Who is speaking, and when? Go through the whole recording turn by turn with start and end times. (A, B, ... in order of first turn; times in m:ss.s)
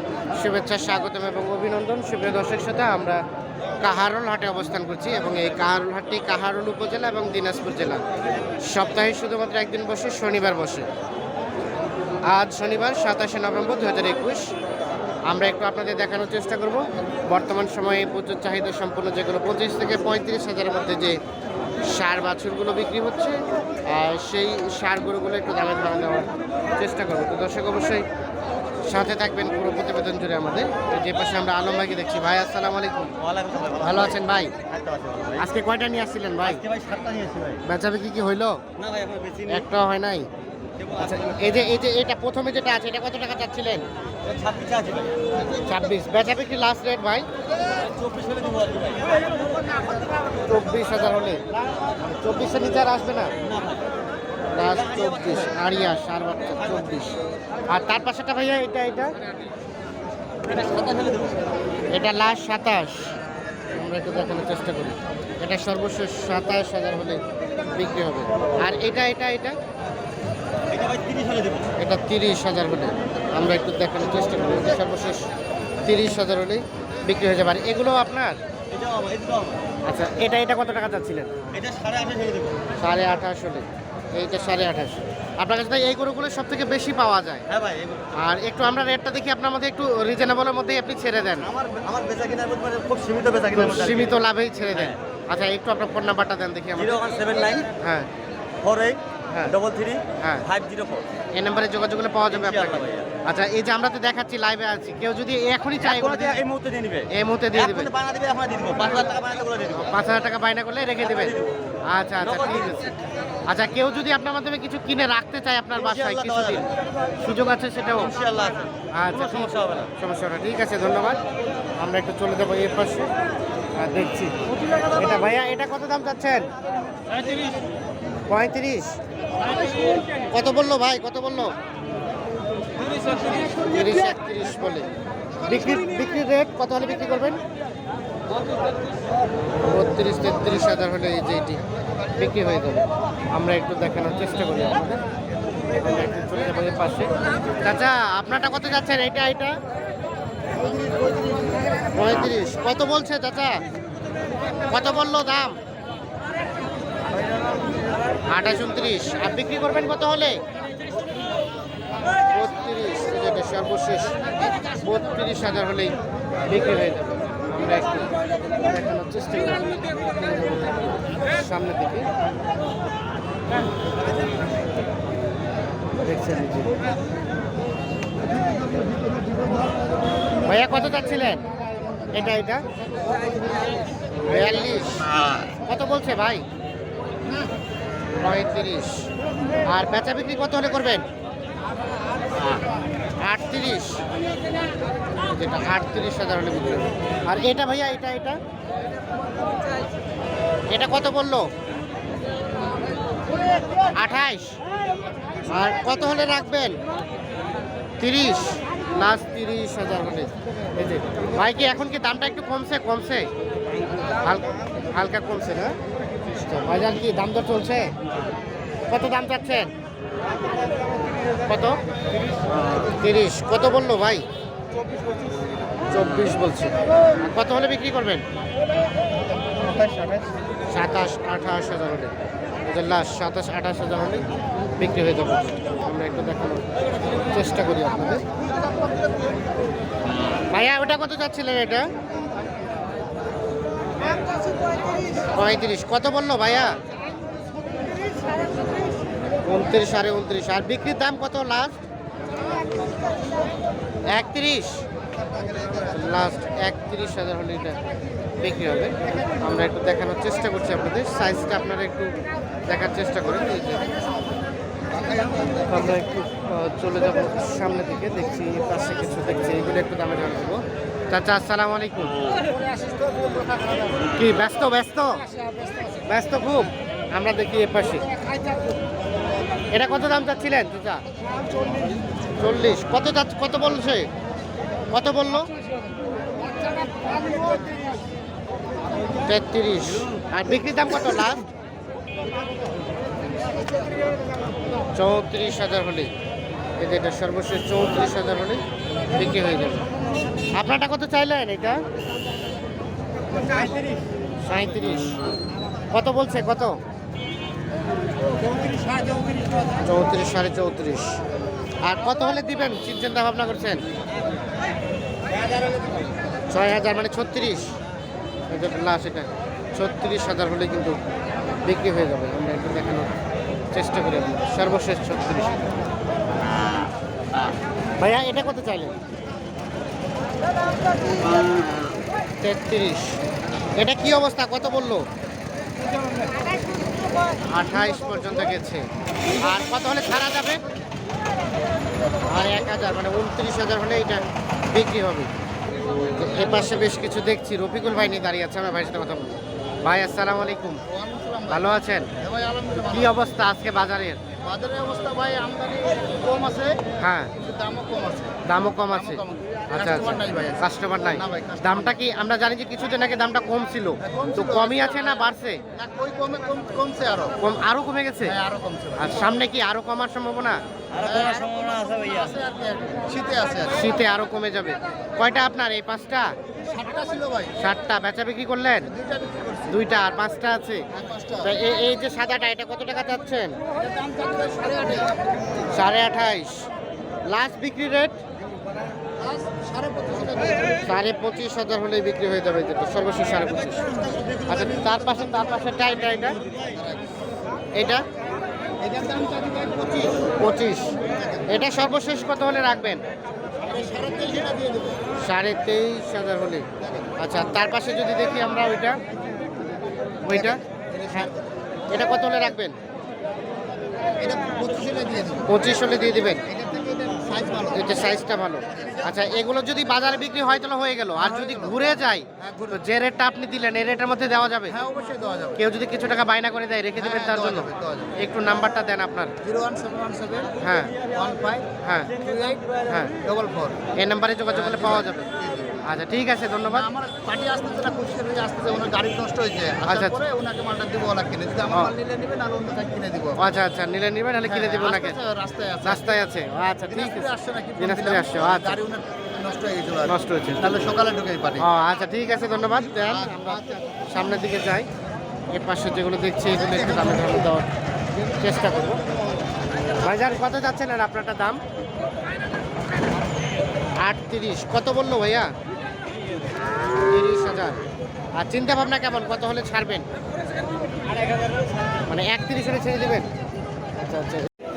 0:00.3-0:03.2 A
0:03.8-0:08.0 A
0:08.6-0:10.9 A
0:12.3-0:14.5 A
0:15.3-0:21.2 A
0:21.9-0:28.0 A
0:28.8-0:33.1 A
0:33.2-0:35.4 B
0:33.8-0:34.5 A
0:35.4-0:36.6 A
0:36.4-0:37.6 B
0:37.6-0:38.6 A
0:38.8-0:39.7 B
0:39.5-0:40.3 A
0:40.8-0:41.5 B
0:41.0-0:43.8 A
0:44.2-0:45.2 B
0:45.6-0:47.3 A
0:47.7-0:49.7 B
0:50.4-0:51.4 A
0:52.0-0:53.3 A
0:53.4-0:53.8 B
0:54.5-0:57.2 A
0:54.6-0:55.6 B
0:56.8-0:57.0 B
0:57.7-0:59.2 A
1:00.5-1:01.4 B
1:01.9-1:03.1 A
1:03.7-1:07.2 A
1:07.7-1:09.6 A
1:10.7-1:11.7 B
1:11.8-1:15.2 A
1:15.8-1:18.4 A
1:18.7-1:19.6 B
1:19.8-1:21.3 A
1:21.5-1:22.6 B
1:22.8-1:27.4 A
1:27.5-1:28.1 B
1:28.2-1:31.5 A
1:31.4-1:34.2 B
1:33.5-1:37.0 A
1:36.8-1:37.7 B
1:37.8-1:38.1 A
1:38.6-1:41.0 B
1:40.2-1:40.4 A
1:41.3-1:46.4 A
1:42.3-1:43.1 B
1:45.8-1:49.9 B
1:47.1-1:47.9 A
1:49.7-1:52.9 A
1:51.0-1:51.5 B
1:52.2-1:52.9 B
1:53.5-1:58.1 A
1:55.8-1:56.7 B
1:57.9-1:59.9 B
1:58.9-2:01.2 A
2:01.8-2:03.1 A
2:03.8-2:04.3 A
2:04.9-2:06.5 A
2:07.2-2:07.6 B
2:08.3-2:09.0 A
2:10.3-2:11.5 A
2:13.5-2:14.9 A
2:15.4-2:17.4 A
2:19.6-2:21.6 A
2:22.2-2:25.0 A
2:25.8-2:27.1 A
2:27.6-2:29.6 A
2:31.9-2:33.6 A
2:34.7-2:35.6 A
2:38.3-2:40.4 A
2:42.3-2:44.2 A
2:44.7-2:46.0 A
2:46.5-2:52.1 A
2:56.0-2:56.8 A
3:00.4-3:01.4 A
3:02.1-3:02.6 A
3:04.3-3:05.1 A
3:05.6-3:06.4 A
3:08.2-3:09.1 A
3:09.7-3:11.0 A
3:13.2-3:14.0 A
3:15.3-3:18.4 A
3:20.7-3:21.5 A
3:23.9-3:24.6 A
3:25.5-3:26.8 A
3:28.0-3:33.3 A
3:34.2-3:35.8 A
3:36.4-3:37.9 A
3:38.9-3:39.7 A
3:41.4-3:41.8 A
3:42.8-3:44.2 A
3:45.9-3:48.2 A
3:50.7-3:52.1 A
3:52.6-3:54.2 A
3:54.8-3:56.6 A
3:57.2-3:58.2 A
4:00.5-4:01.9 A
4:05.3-4:06.7 A
4:09.4-4:11.8 A
4:14.1-4:14.8 A
4:15.4-4:15.9 C
4:15.9-4:17.8 A
4:18.4-4:22.1 A
4:22.7-4:23.6 A
4:24.9-4:25.7 C
4:25.7-4:32.2 A
4:34.2-4:35.2 A
4:36.0-4:38.1 A
4:39.7-4:41.0 A
4:42.4-4:44.1 A
4:44.9-4:45.5 A
4:49.2-4:51.4 A
4:54.9-4:56.1 A
4:56.8-4:58.6 A
4:59.1-4:59.9 A
5:00.6-5:01.8 A
5:04.4-5:05.2 A
5:05.9-5:06.8 A
5:09.8-5:11.2 A
5:11.8-5:13.8 A
5:16.5-5:17.7 A
5:18.5-5:21.0 A
5:21.6-5:23.1 A
5:23.7-5:25.6 A
5:28.0-5:29.0 A
5:32.4-5:33.2 A
5:33.8-5:35.0 A
5:37.5-5:38.8 A
5:39.4-5:40.6 A
5:42.3-5:45.3 A
5:46.2-5:50.8 A
5:50.9-5:51.6 C
5:51.5-5:52.1 A
5:52.2-5:53.2 C
5:52.8-5:54.2 A
5:54.4-5:56.8 C
5:57.0-5:57.3 A
5:57.4-5:58.4 C
5:58.5-6:05.6 A
5:58.9-6:02.0 C
6:04.0-6:07.4 C
6:07.4-6:08.4 A
6:08.2-6:09.2 C
6:09.0-6:10.6 A
6:10.9-6:12.3 B
6:11.0-6:13.9 C
6:13.7-6:16.3 A
6:16.6-6:17.6 C
6:17.6-6:18.9 A
6:18.8-6:19.8 C
6:19.7-6:20.8 A
6:20.9-6:21.5 C
6:21.4-6:23.6 A
6:23.8-6:25.2 C
6:25.7-6:26.7 A
6:27.3-6:28.2 A
6:29.2-6:30.9 C
6:30.8-6:33.9 A
6:33.7-6:35.2 B
6:34.4-6:36.4 A
6:36.2-6:36.8 B
6:36.5-6:37.0 C
6:37.7-6:38.0 A
6:38.8-6:40.3 C
6:40.4-6:40.9 A
6:41.5-6:43.0 A
6:43.6-6:45.0 C
6:45.2-6:46.6 A
6:46.8-6:47.1 C
6:47.2-6:49.0 A
6:50.2-6:50.6 A
6:50.3-6:51.5 C
6:51.9-6:52.8 A
6:54.2-6:55.5 C
6:55.5-6:56.4 A
6:56.4-6:58.1 C
6:57.7-7:04.8 A
7:01.2-7:01.8 C
7:02.4-7:02.8 C
7:04.7-7:05.6 C
7:05.6-7:09.3 A
7:07.0-7:08.1 C
7:09.4-7:10.5 C
7:10.6-7:11.0 A
7:10.8-7:11.4 B
7:11.1-7:12.6 C
7:11.8-7:12.1 A
7:12.2-7:12.8 B
7:12.9-7:13.1 A
7:13.2-7:13.8 C
7:14.0-7:15.3 A
7:14.5-7:15.8 C
7:15.8-7:16.9 A
7:16.7-7:23.4 C
7:19.8-7:20.2 A
7:23.4-7:25.2 A
7:24.4-7:26.2 C
7:25.8-7:27.3 A
7:26.9-7:31.6 C
7:27.8-7:28.8 A
7:30.0-7:30.8 A
7:31.6-7:34.9 A
7:35.5-7:37.7 A
7:36.7-7:37.3 C
7:38.4-7:39.0 A
7:40.0-7:41.6 A
7:44.0-7:45.5 A
7:47.1-7:47.8 A
7:48.4-7:50.0 A
7:52.1-7:53.3 A
7:54.0-7:54.5 A